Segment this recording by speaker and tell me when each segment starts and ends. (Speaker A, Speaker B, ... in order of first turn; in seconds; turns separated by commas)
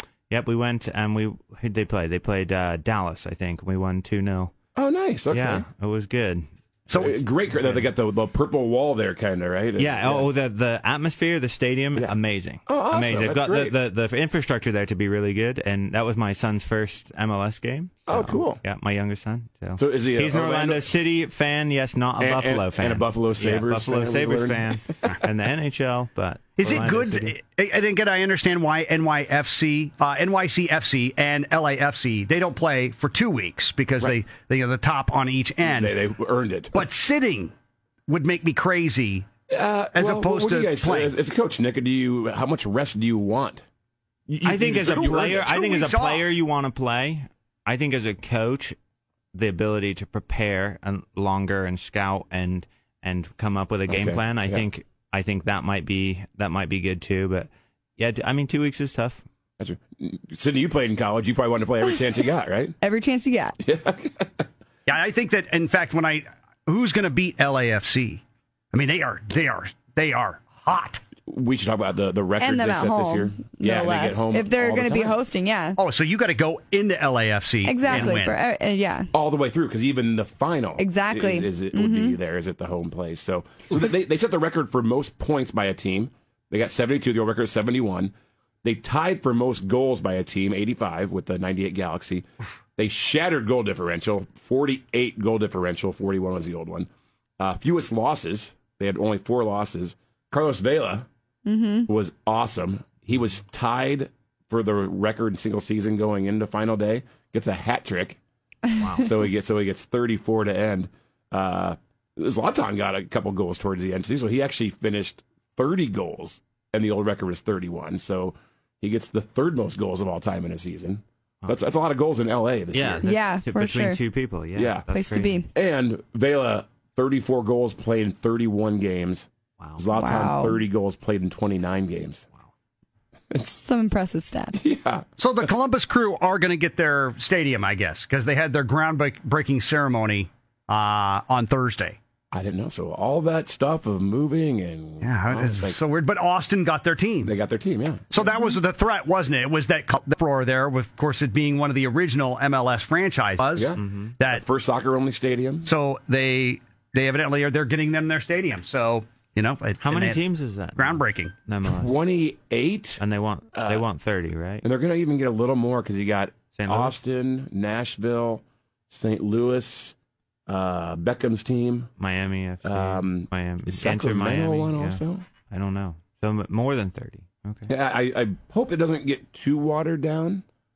Speaker A: 0.3-4.5, Speaker B: 4.8-5.7, Speaker A: 5.3-6.5, Speaker C: 6.9-7.2, Speaker B: 6.9-10.3, Speaker A: 7.6-7.8, Speaker A: 9.8-27.3, Speaker B: 12.7-13.8, Speaker B: 18.1-18.6, Speaker B: 19.8-20.9, Speaker B: 22.2-25.1, Speaker C: 26.6-35.9, Speaker B: 35.6-36.9, Speaker C: 36.7-37.5, Speaker C: 38.1-39.3, Speaker B: 39.5-43.6, Speaker C: 39.9-41.1, Speaker B: 44.3-45.5, Speaker A: 44.4-48.8, Speaker C: 44.8-46.2, Speaker A: 49.3-59.2, Speaker B: 53.9-54.6, Speaker B: 59.6-62.8, Speaker D: 62.8-63.6, Speaker B: 63.6-64.5, Speaker C: 64.9-68.2, Speaker C: 68.7-71.0, Speaker B: 71.2-75.2, Speaker D: 72.4-75.8, Speaker C: 75.8-78.4, Speaker D: 77.6-79.1, Speaker B: 77.8-78.2, Speaker B: 79.1-92.2, Speaker D: 80.8-82.2, Speaker B: 92.8-101.1, Speaker D: 101.5-101.9, Speaker B: 101.9-108.2, Speaker A: 108.8-109.0, Speaker B: 108.9-123.0, Speaker A: 122.7-125.4, Speaker D: 123.0-124.0, Speaker B: 124.5-124.8, Speaker D: 124.9-125.5, Speaker B: 125.5-132.2, Speaker D: 129.9-130.6, Speaker B: 133.3-133.6, Speaker D: 133.6-134.6, Speaker B: 134.5-135.1, Speaker C: 135.2-142.0, Speaker B: 142.3-145.8, Speaker C: 145.0-147.3, Speaker B: 147.2-148.1, Speaker C: 148.1-154.4, Speaker B: 153.6-155.7, Speaker A: 153.8-154.1, Speaker C: 155.6-160.2, Speaker A: 159.8-161.9, Speaker C: 160.8-161.3, Speaker B: 161.6-163.0, Speaker A: 163.0-164.6, Speaker B: 163.5-163.8, Speaker B: 164.6-169.9, Speaker A: 166.5-166.9, Speaker B: 170.5-171.9, Speaker A: 172.0-177.7, Speaker B: 172.6-175.2, Speaker B: 177.7-180.4